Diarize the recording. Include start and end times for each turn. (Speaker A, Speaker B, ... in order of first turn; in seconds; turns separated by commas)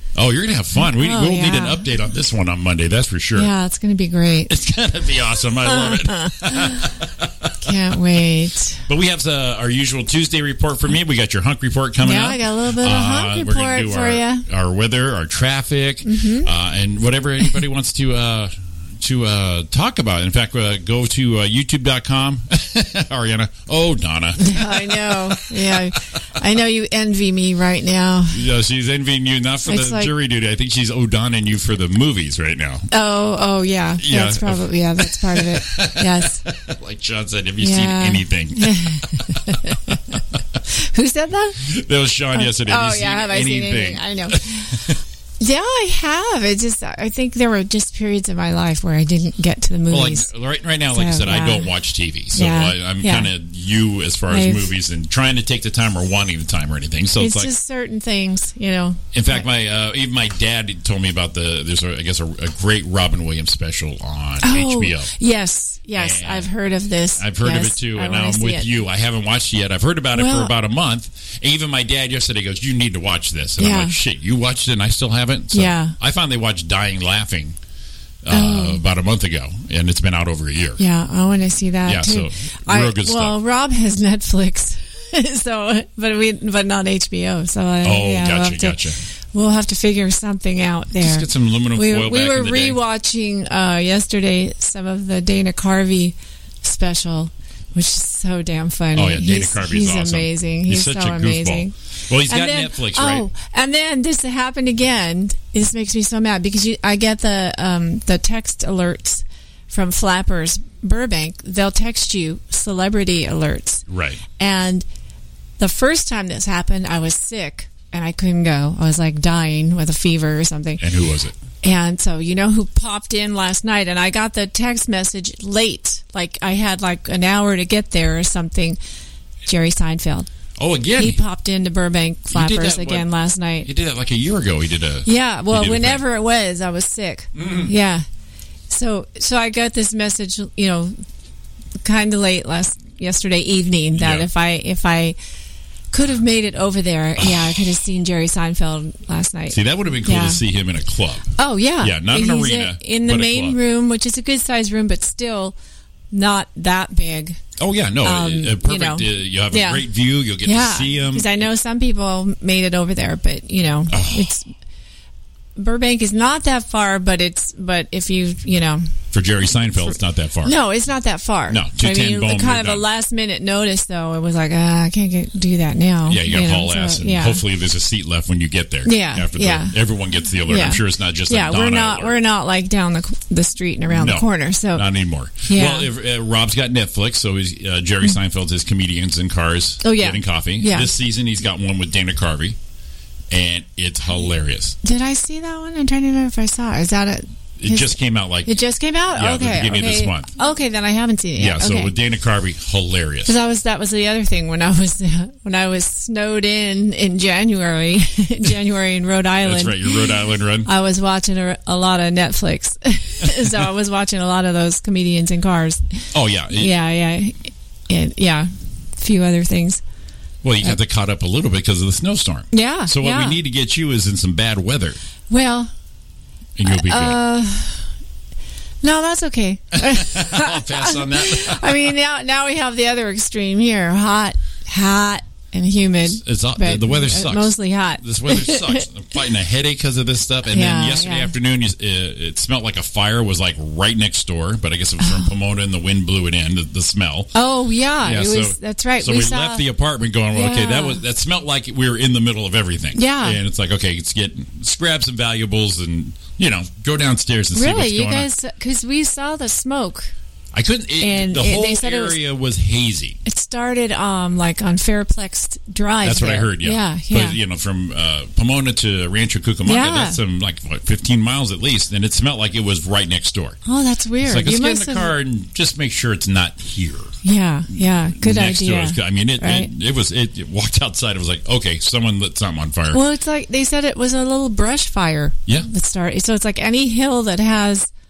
Speaker A: 0.1-3.5, Speaker B: 0.8-1.9, Speaker B: 3.4-4.5, Speaker A: 4.5-7.8, Speaker B: 5.6-6.9, Speaker B: 7.6-8.8, Speaker A: 8.9-26.0, Speaker B: 12.0-14.4, Speaker B: 16.1-16.5, Speaker B: 24.4-28.4, Speaker A: 28.3-32.9, Speaker B: 29.7-30.1, Speaker B: 32.9-36.4, Speaker A: 34.0-40.4, Speaker B: 37.6-40.0, Speaker B: 40.7-41.6, Speaker A: 41.6-45.0, Speaker B: 42.3-50.3, Speaker A: 49.9-57.5, Speaker B: 50.9-51.7, Speaker B: 52.3-53.3, Speaker B: 54.3-54.7, Speaker B: 57.2-59.4, Speaker A: 59.1-65.1, Speaker B: 64.4-68.7, Speaker A: 66.0-66.5, Speaker A: 67.2-77.6, Speaker B: 70.1-70.5, Speaker B: 73.6-74.0, Speaker B: 75.5-76.0, Speaker A: 78.2-80.8, Speaker B: 78.3-78.8, Speaker B: 80.8-88.8, Speaker A: 81.8-83.4, Speaker A: 87.8-89.0, Speaker B: 89.3-101.7, Speaker A: 91.0-92.8, Speaker A: 98.9-103.3, Speaker B: 102.3-113.8, Speaker A: 113.9-114.2, Speaker B: 114.4-114.9, Speaker B: 115.6-120.8, Speaker A: 120.8-121.3, Speaker B: 121.6-128.8, Speaker B: 129.5-130.3, Speaker A: 130.6-131.2, Speaker B: 131.0-133.7, Speaker A: 132.3-133.1, Speaker A: 133.6-136.1, Speaker B: 135.1-138.1, Speaker A: 137.4-137.7, Speaker B: 138.7-141.0, Speaker B: 141.8-145.2, Speaker A: 144.0-144.3, Speaker B: 145.9-150.4, Speaker A: 147.2-147.6, Speaker A: 149.5-153.6, Speaker B: 151.4-155.6, Speaker B: 156.1-157.4, Speaker A: 157.6-161.5, Speaker B: 158.0-159.9, Speaker B: 160.4-164.5, Speaker A: 163.9-164.3, Speaker B: 165.6-168.9, Speaker A: 169.1-170.6, Speaker B: 169.6-177.4, Speaker A: 171.5-172.8, Speaker A: 176.1-182.2, Speaker B: 178.8-179.8, Speaker B: 180.5-184.9, Speaker A: 183.9-192.6, Speaker B: 185.4-185.9, Speaker B: 189.8-190.9, Speaker A: 193.3-194.8, Speaker B: 194.8-201.9, Speaker A: 197.6-200.3, Speaker A: 201.4-203.3, Speaker B: 203.3-215.9, Speaker A: 209.4-210.7, Speaker A: 213.2-213.5, Speaker A: 216.1-216.8, Speaker B: 216.5-219.8, Speaker A: 220.4-225.0, Speaker B: 222.5-223.4, Speaker B: 225.3-225.7, Speaker A: 226.6-227.2, Speaker B: 226.7-227.8, Speaker B: 228.8-238.8, Speaker A: 229.7-232.0, Speaker A: 236.0-247.3, Speaker B: 240.5-241.3, Speaker B: 245.0-245.3, Speaker B: 247.3-249.7, Speaker A: 248.0-258.3, Speaker B: 250.3-251.0, Speaker B: 252.9-253.4, Speaker B: 257.5-260.1, Speaker A: 260.5-263.2, Speaker B: 261.0-262.2, Speaker B: 263.2-267.4, Speaker A: 266.0-273.6, Speaker B: 269.6-270.2, Speaker B: 273.6-275.1, Speaker A: 274.2-277.2, Speaker B: 277.2-279.7, Speaker A: 277.7-283.0, Speaker B: 282.9-287.9